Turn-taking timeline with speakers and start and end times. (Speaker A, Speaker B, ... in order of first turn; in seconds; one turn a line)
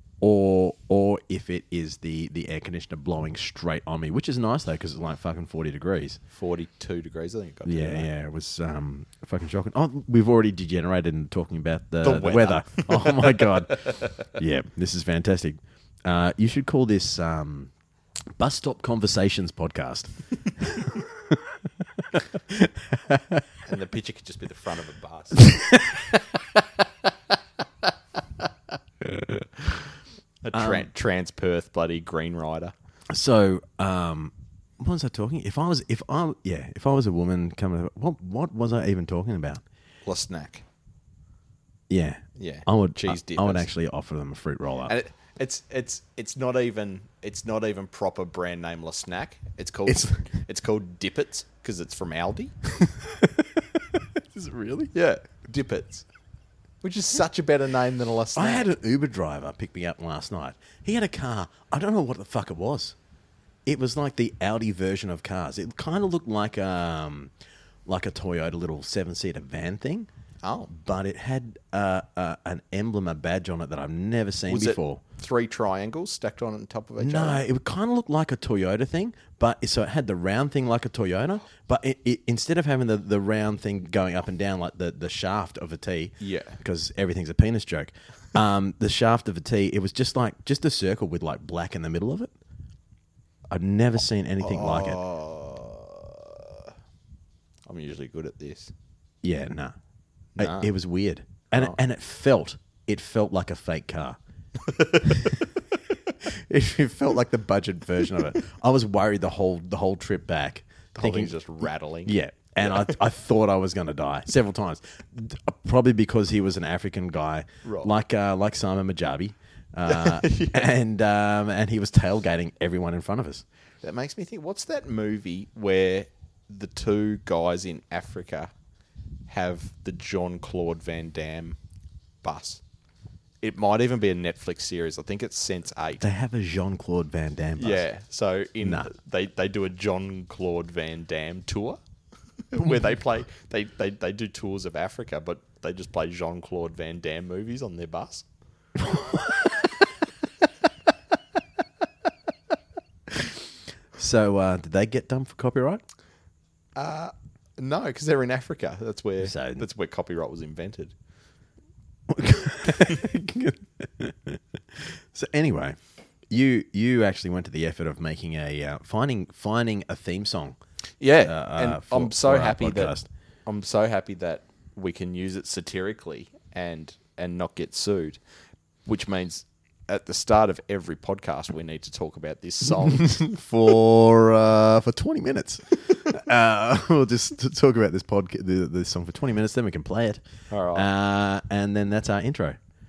Speaker A: 0.2-6.2
Speaker B: 6.3-8.1
Speaker A: 7.7-17.7
Speaker B: 12.0-14.2
Speaker A: 18.4-21.6
Speaker A: 22.1-23.4
Speaker B: 23.6-25.5
Speaker A: 25.4-26.6
Speaker A: 29.0-29.8
Speaker B: 30.4-32.7
Speaker A: 30.5-30.9
Speaker A: 33.1-39.6
Speaker B: 40.0-40.6
Speaker A: 41.9-44.9
Speaker B: 42.4-43.7
Speaker B: 44.9-52.5
Speaker A: 49.9-50.2
Speaker A: 52.8-54.9
Speaker B: 54.9-56.0
Speaker B: 56.8-58.7
Speaker A: 58.3-63.0
Speaker A: 63.6-67.3
Speaker A: 67.8-70.1
Speaker B: 70.4-70.7
Speaker A: 70.7-75.0
Speaker B: 74.5-77.5
Speaker A: 77.0-92.3
Speaker B: 86.2-86.6
Speaker A: 93.5-95.0
Speaker B: 94.4-96.7
Speaker B: 97.7-98.7
Speaker A: 99.2-99.8
Speaker B: 100.3-100.7
Speaker A: 100.4-104.2
Speaker B: 104.7-105.3
Speaker A: 105.0-105.3
Speaker A: 106.2-111.3
Speaker B: 110.9-112.9
Speaker A: 112.0-123.4
Speaker B: 117.6-117.9
Speaker B: 119.8-120.7
Speaker B: 123.8-128.5
Speaker B: 129.3-131.6
Speaker B: 132.2-132.6
Speaker B: 133.4-136.1
Speaker A: 136.0-137.8
Speaker B: 137.6-141.8
Speaker A: 138.6-138.9
Speaker B: 142.5-148.2
Speaker A: 148.8-149.5
Speaker A: 153.9-155.8
Speaker B: 156.8-160.9
Speaker A: 159.2-159.6
Speaker A: 162.1-165.8
Speaker A: 166.3-170.6
Speaker B: 171.0-178.2
Speaker A: 171.2-173.1
Speaker B: 178.8-183.2
Speaker A: 182.8-190.2
Speaker B: 190.5-190.9
Speaker A: 190.7-192.6